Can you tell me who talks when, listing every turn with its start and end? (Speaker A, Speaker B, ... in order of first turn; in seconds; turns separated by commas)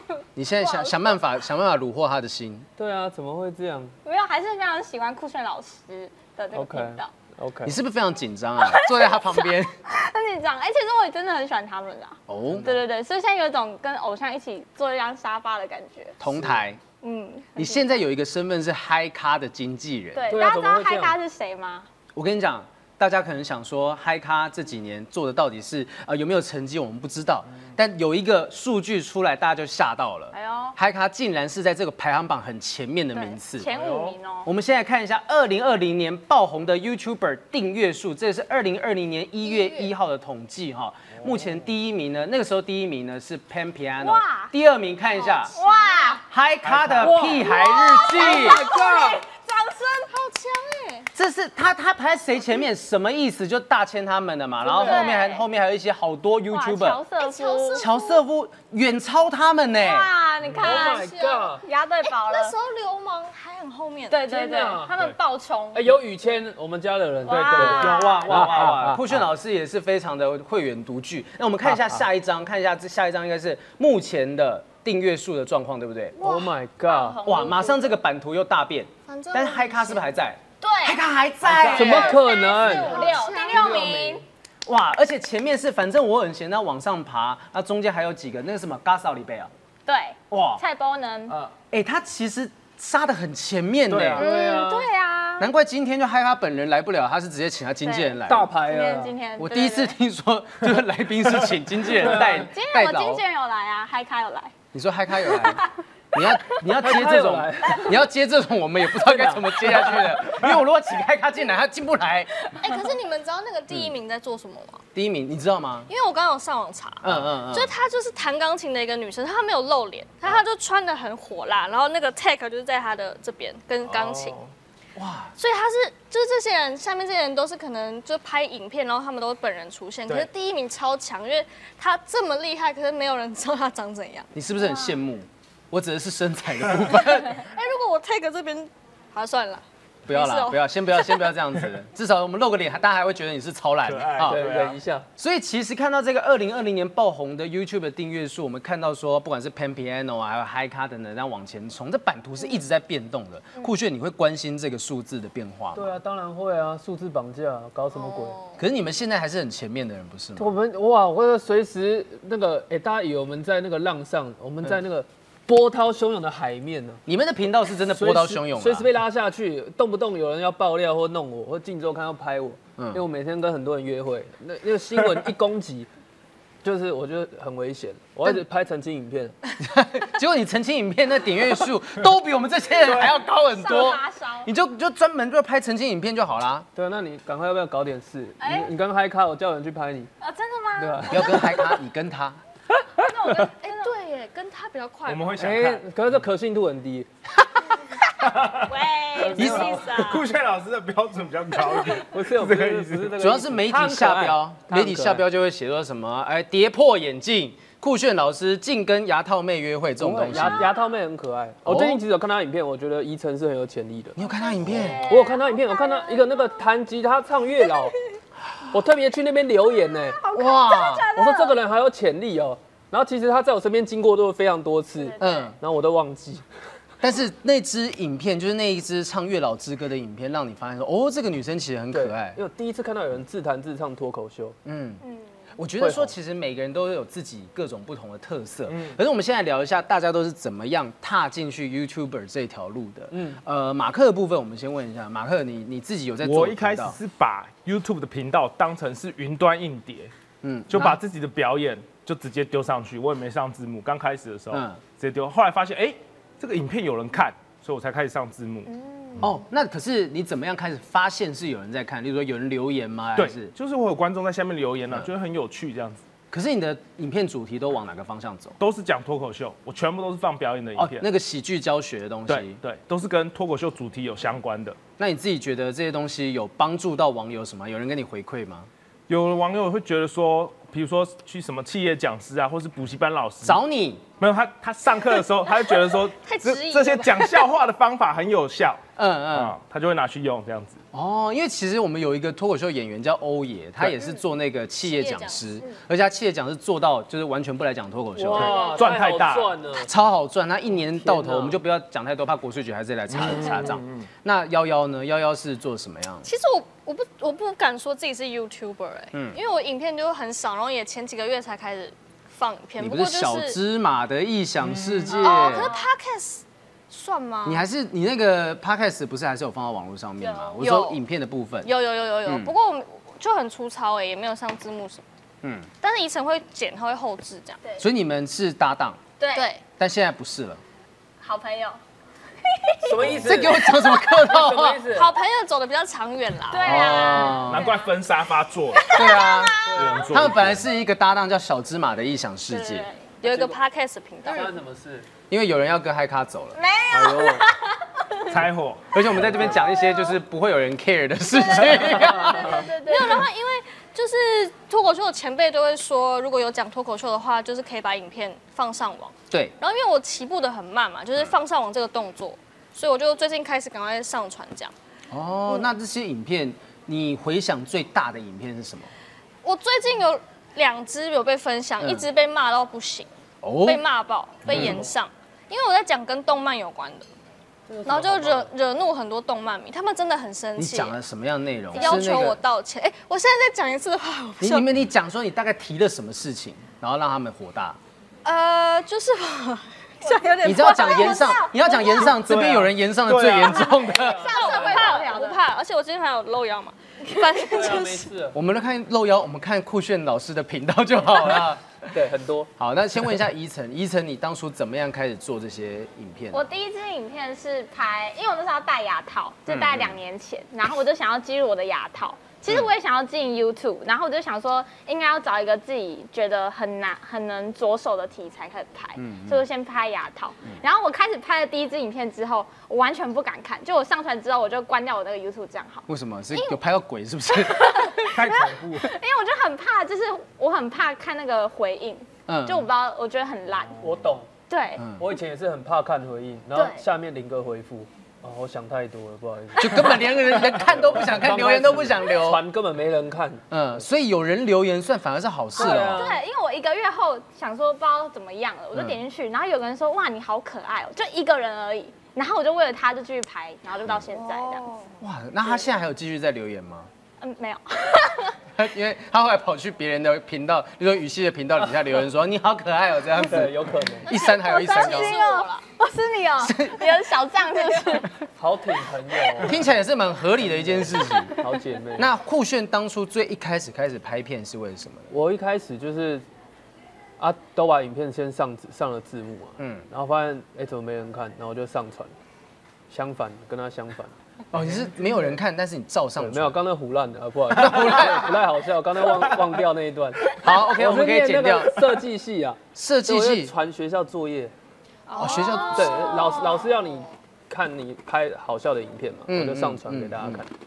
Speaker A: 0.3-2.7, Speaker B: 0.6-1.1, Speaker C: 2.8-3.9, Speaker B: 4.0-7.1, Speaker C: 6.5-7.8, Speaker A: 7.6-9.7, Speaker B: 8.6-9.3, Speaker B: 9.8-16.2, Speaker A: 12.3-12.8, Speaker A: 16.2-16.8, Speaker B: 17.0-17.9, Speaker A: 17.6-20.3, Speaker B: 20.1-21.9, Speaker C: 20.3-21.2, Speaker A: 22.1-33.7, Speaker B: 30.3-30.8, Speaker B: 33.1-34.5, Speaker D: 33.7-34.1, Speaker A: 34.4-45.6, Speaker B: 39.4-39.9, Speaker D: 41.2-41.5, Speaker B: 44.0-44.5, Speaker B: 45.4-46.2, Speaker E: 45.6-46.0, Speaker A: 46.3-48.6, Speaker D: 46.6-47.2, Speaker C: 47.0-49.2, Speaker B: 47.4-50.1, Speaker E: 50.1-51.0, Speaker A: 51.1-57.0, Speaker C: 54.6-55.0, Speaker B: 54.8-55.4, Speaker B: 56.5-57.8, Speaker E: 57.2-58.2, Speaker A: 57.8-60.1, Speaker B: 59.8-62.5, Speaker D: 60.5-60.8, Speaker C: 60.6-61.6, Speaker E: 60.7-61.2, Speaker E: 62.0-64.2, Speaker B: 64.1-66.0, Speaker C: 64.2-64.9, Speaker C: 65.7-69.2, Speaker B: 67.2-68.8, Speaker D: 67.3-67.7, Speaker A: 67.5-76.2, Speaker C: 71.7-72.0, Speaker B: 76.2-77.9, Speaker C: 76.2-77.2, Speaker A: 77.2-82.2, Speaker E: 79.1-80.0, Speaker B: 80.6-81.0, Speaker B: 81.6-84.2, Speaker C: 81.7-84.2, Speaker E: 82.5-84.0, Speaker A: 84.7-89.5, Speaker B: 89.8-91.3, Speaker A: 90.3-90.6, Speaker A: 91.7-94.3, Speaker C: 93.9-94.9, Speaker B: 94.2-95.5, Speaker A: 95.4-98.5, Speaker B: 97.8-99.9, Speaker C: 98.2-99.1, Speaker A: 99.4-103.2, Speaker B: 102.4-104.5, Speaker A: 104.7-112.3, Speaker B: 105.2-106.4, Speaker C: 106.7-108.0, Speaker C: 109.2-109.6, Speaker E: 112.5-114.8, Speaker A: 114.9-115.9, Speaker E: 115.9-124.3, Speaker A: 117.0-117.7, Speaker D: 123.9-124.5, Speaker A: 125.0-125.3, Speaker E: 125.4-134.3, Speaker A: 134.3-137.4, Speaker B: 134.6-134.9, Speaker E: 136.9-141.3, Speaker A: 140.1-144.4, Speaker D: 143.8-144.8, Speaker C: 144.2-145.1, Speaker A: 145.2-155.9, Speaker C: 155.7-158.4, Speaker E: 157.9-158.6, Speaker A: 158.6-160.5, Speaker C: 160.4-167.0, Speaker A: 167.1-168.9, Speaker C: 167.9-175.9, Speaker C: 176.6-179.4, Speaker A: 179.6-186.7, Speaker B: 183.5-184.5, Speaker C: 186.7-190.1, Speaker B: 188.4-188.7, Speaker B: 190.2-191.3, Speaker C: 190.8-191.7, Speaker A: 191.1-192.4, Speaker B: 193.0-193.9, Speaker E: 193.6-195.3, Speaker D: 195.0-195.8, Speaker C: 195.4-197.1, Speaker D: 198.2-198.7, Speaker B: 198.6-200.2, Speaker C: 199.1-200.0, Speaker A: 199.3-199.9, Speaker D: 199.7-203.2, Speaker C: 202.0-205.2, Speaker A: 203.2-210.7, Speaker C: 210.0-214.2, Speaker A: 211.6-212.0, Speaker A: 214.2-215.2, Speaker B: 214.2-216.4, Speaker C: 215.1-217.9, Speaker C: 218.7-220.2, Speaker B: 220.0-221.6, Speaker A: 220.3-221.1, Speaker C: 221.1-226.4, Speaker B: 225.0-225.5, Speaker A: 225.2-225.6, Speaker A: 227.0-232.4, Speaker C: 231.9-234.6, Speaker A: 234.6-235.0, Speaker A: 235.6-247.0, Speaker C: 235.8-236.1, Speaker D: 238.7-238.9, Speaker C: 243.1-243.4, Speaker D: 246.2-250.1, Speaker A: 250.4-251.0, Speaker D: 250.7-258.7, Speaker A: 254.5-254.8, Speaker B: 258.7-259.2, Speaker A: 259.2-263.5, Speaker D: 263.1-266.0, Speaker A: 266.3-268.6, Speaker D: 268.6-271.1, Speaker A: 270.8-272.6, Speaker D: 272.3-274.8, Speaker A: 275.0-278.7, Speaker D: 279.1-283.6, Speaker A: 283.4-284.0, Speaker D: 284.2-288.8, Speaker E: 285.5-287.4, Speaker A: 289.0-289.5, Speaker D: 289.3-290.8, Speaker A: 290.9-298.7, Speaker E: 294.8-295.6, Speaker C: 298.1-299.9, Speaker D: 298.4-299.6, Speaker A: 299.8-306.3, Speaker C: 300.8-301.6, Speaker D: 303.1-304.1, Speaker E: 306.2-313.6, Speaker A: 309.1-309.4, Speaker A: 312.8-315.7, Speaker D: 314.7-315.1, Speaker E: 315.1-317.6, Speaker B: 315.2-315.9, Speaker A: 317.4-321.7, Speaker B: 320.2-320.6, Speaker E: 320.6-321.0, Speaker E: 321.6-325.0, Speaker A: 322.2-322.5, Speaker A: 325.4-325.7, Speaker E: 325.8-327.6, Speaker A: 327.8-329.0, Speaker B: 329.2-329.5, Speaker E: 329.3-329.6, Speaker A: 329.8-330.6, Speaker B: 331.2-331.8, Speaker B: 332.4-334.3, Speaker C: 332.8-335.1, Speaker A: 333.1-334.9, Speaker E: 334.9-337.3, Speaker B: 336.5-337.9, Speaker A: 336.6-337.7, Speaker D: 337.2-339.0, Speaker B: 338.7-339.9, Speaker A: 338.9-342.9, Speaker C: 339.6-340.3, Speaker D: 339.7-340.6, Speaker B: 342.5-343.1, Speaker E: 343.2-344.5, Speaker C: 343.2-343.6, Speaker C: 344.2-345.1, Speaker A: 345.3-346.6, Speaker B: 346.5-348.4, Speaker C: 346.9-347.5, Speaker D: 348.3-348.9, Speaker A: 348.9-352.6, Speaker B: 349.6-350.1, Speaker B: 351.4-353.3, Speaker E: 352.2-364.7, Speaker A: 365.1-368.9, Speaker E: 369.4-373.1, Speaker A: 371.8-372.1, Speaker A: 373.4-373.8, Speaker E: 373.6-377.1, Speaker A: 374.4-374.8, Speaker C: 374.5-374.9, Speaker C: 377.7-378.5, Speaker E: 377.8-380.9, Speaker A: 380.6-382.4, Speaker E: 381.7-384.7, Speaker B: 381.7-382.3, Speaker A: 384.4-387.8, Speaker E: 388.2-392.1, Speaker B: 390.0-392.1, Speaker A: 390.4-394.3, Speaker D: 392.1-393.6, Speaker E: 393.7-398.1, Speaker C: 393.8-395.1, Speaker B: 393.9-395.4, Speaker C: 397.4-398.4, Speaker A: 398.3-401.6, Speaker C: 401.9-402.5, Speaker A: 402.6-406.4, Speaker B: 406.3-426.6, Speaker A: 409.5-410.0, Speaker A: 419.0-419.4, Speaker A: 425.9-428.1, Speaker B: 427.3-433.8, Speaker D: 428.1-428.9, Speaker A: 432.3-432.7, Speaker C: 433.8-434.3, Speaker B: 434.5-434.8, Speaker A: 434.8-435.0, Speaker C: 434.9-443.4, Speaker B: 436.5-436.8, Speaker A: 439.6-442.4, Speaker A: 443.5-446.1, Speaker C: 445.5-446.2, Speaker B: 445.6-454.7, Speaker A: 448.7-449.0, Speaker E: 454.1-454.9, Speaker A: 455.0-456.9, Speaker B: 457.2-458.4, Speaker A: 458.5-465.2, Speaker C: 463.1-464.1, Speaker B: 464.1-468.1, Speaker E: 464.1-465.6, Speaker A: 466.4-466.9, Speaker C: 468.4-469.6, Speaker A: 469.4-471.4, Speaker C: 470.6-472.1, Speaker A: 472.0-475.1, Speaker C: 475.1-476.2, Speaker C: 477.2-482.1, Speaker A: 479.6-479.8, Speaker C: 482.9-485.2, Speaker A: 484.5-486.6, Speaker C: 486.2-494.5, Speaker A: 487.5-488.4, Speaker A: 490.3-492.0, Speaker A: 492.7-493.5, Speaker E: 495.1-496.5, Speaker B: 495.1-496.5, Speaker A: 495.1-496.1, Speaker C: 495.6-500.5, Speaker A: 499.3-500.4